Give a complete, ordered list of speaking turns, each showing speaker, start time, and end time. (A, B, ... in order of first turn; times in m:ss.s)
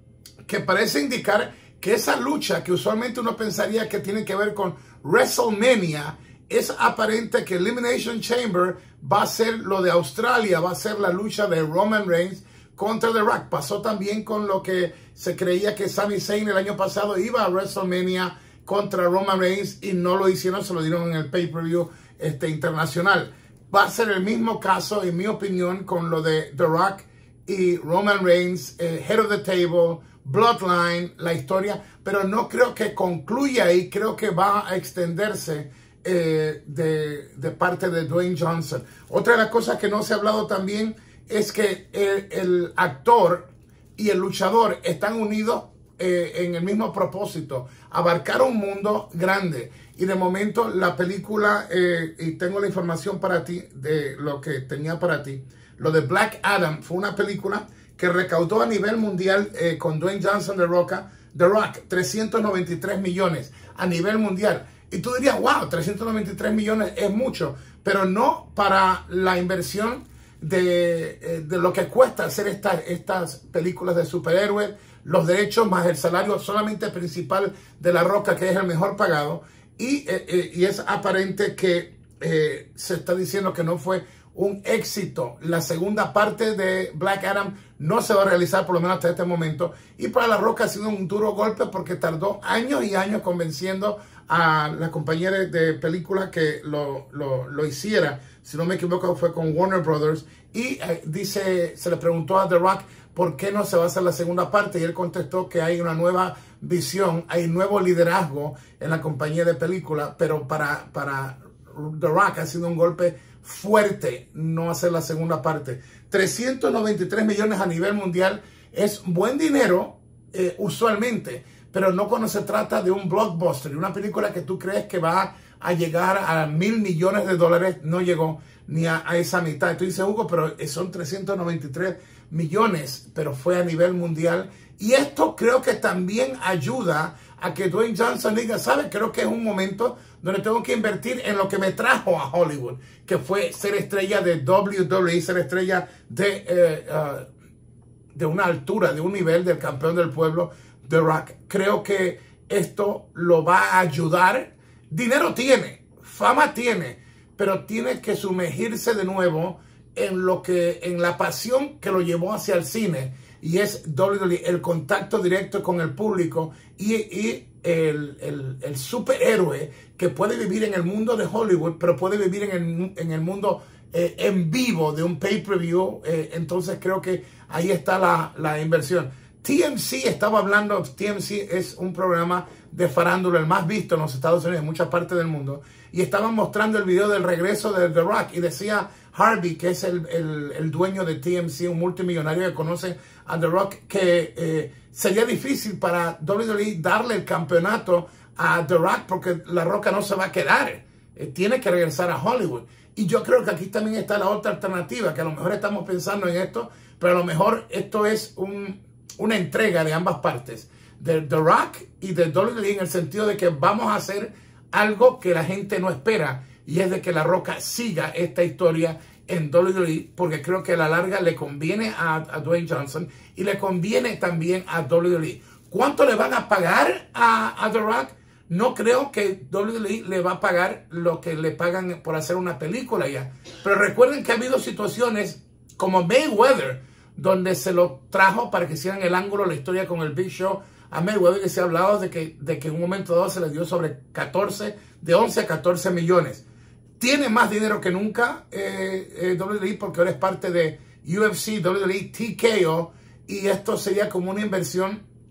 0:00.4-2:27.3 A
2:28.1-4:06.4 A
4:07.0-4:15.0 A